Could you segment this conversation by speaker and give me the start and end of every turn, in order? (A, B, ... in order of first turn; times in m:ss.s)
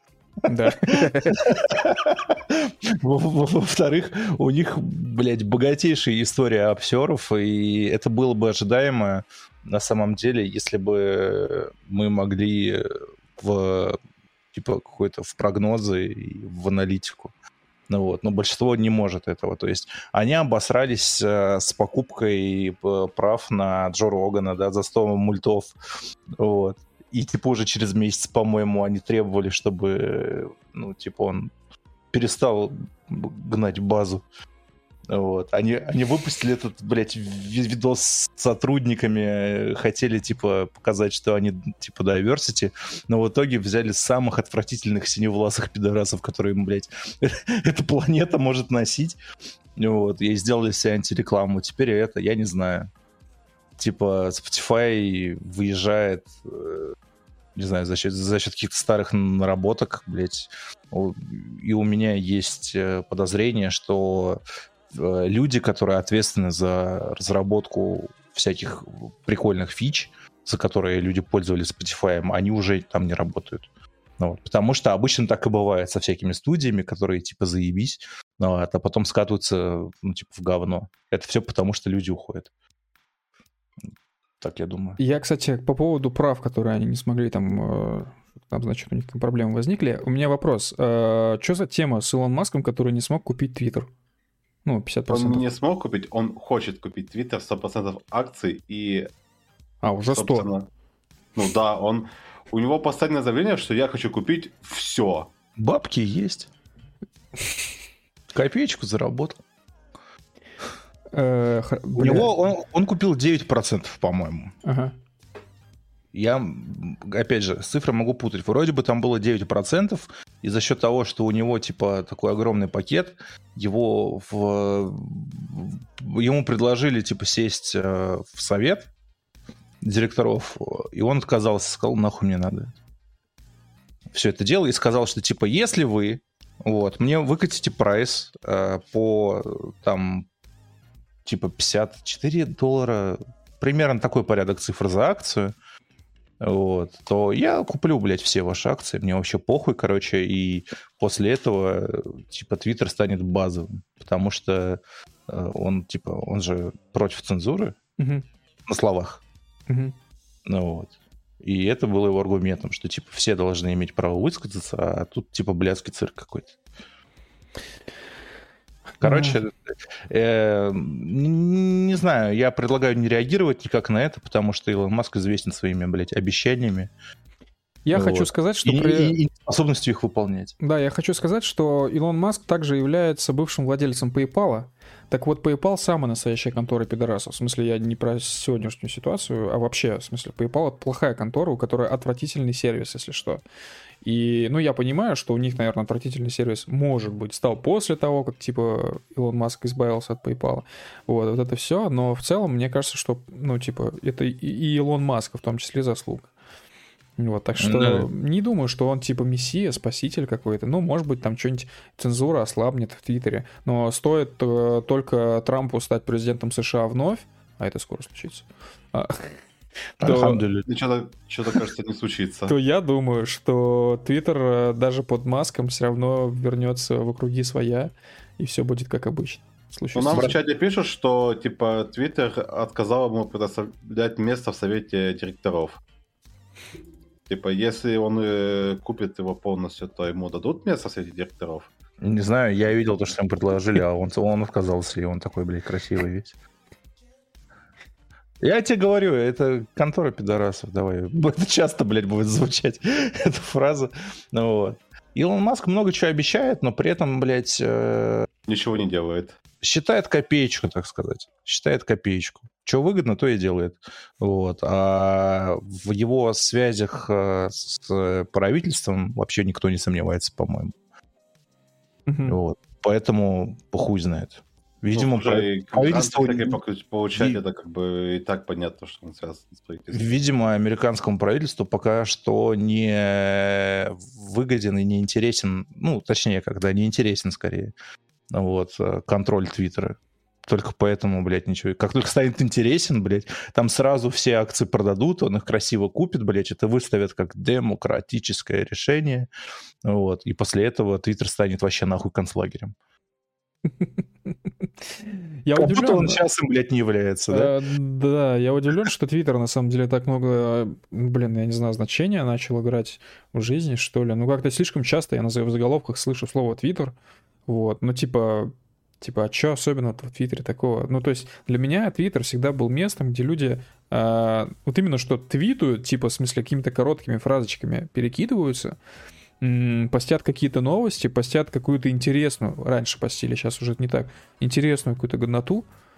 0:00.5-0:01.4 A
0:00.8-0:14.0 B
0:14.5-0:17.3 B
0:17.9-0:25.7 B
0:26.4-0:31.5 B
0:32.1-0:34.2 B
0:35.1-0:49.2 B
0:49.8-0:52.9 B
0:53.8-0:57.0 B
0:57.6-1:04.4 B
1:04.9-1:13.7 B
1:14.2-1:22.5 B
1:24.4-1:25.0 B
1:25.0-1:33.9 A
1:34.6-1:35.5 A
1:35.1-1:39.1 C
1:39.8-1:40.5 A
1:40.1-1:40.7 C
1:41.4-1:45.3 C
1:45.6-1:46.5 B
1:48.3-1:49.4 B
1:51.1-1:52.3 A
1:52.0-1:54.6 B
1:54.6-1:54.9 A
1:56.1-2:08.9 B
2:09.8-2:12.7 B
2:14.1-2:20.3 B
2:21.2-2:25.5 B
2:26.4-2:37.8 B
2:38.0-2:38.2 A
2:38.7-2:39.2 B
2:39.7-2:40.0 A
2:40.5-2:46.6 B
2:49.0-2:56.9 B
2:49.0-2:49.4 A
2:57.9-2:59.2 A
2:57.9-3:00.5 B
3:00.6-3:13.4 A
3:14.0-3:26.3 A
3:27.2-3:39.4 A
3:27.6-3:28.1 B
3:40.0-3:40.7 B
3:40.0-3:40.4 A
3:40.7-3:42.5 C
3:42.5-3:50.3 A
3:50.0-3:55.8 C
3:57.3-4:01.7 C
4:02.0-4:06.4 B
4:08.4-4:18.3 B
4:18.5-4:19.3 C
4:19.6-4:30.7 B
4:32.1-4:32.4 A
4:32.3-4:36.6 B
4:34.9-4:40.2 C
4:39.9-4:47.7 B
4:48.3-4:59.3 B
4:59.8-5:02.7 B
5:05.4-5:06.2 A
5:05.5-5:07.5 B
5:07.3-5:16.9 A
5:17.5-5:28.8 A
5:29.4-5:35.6 A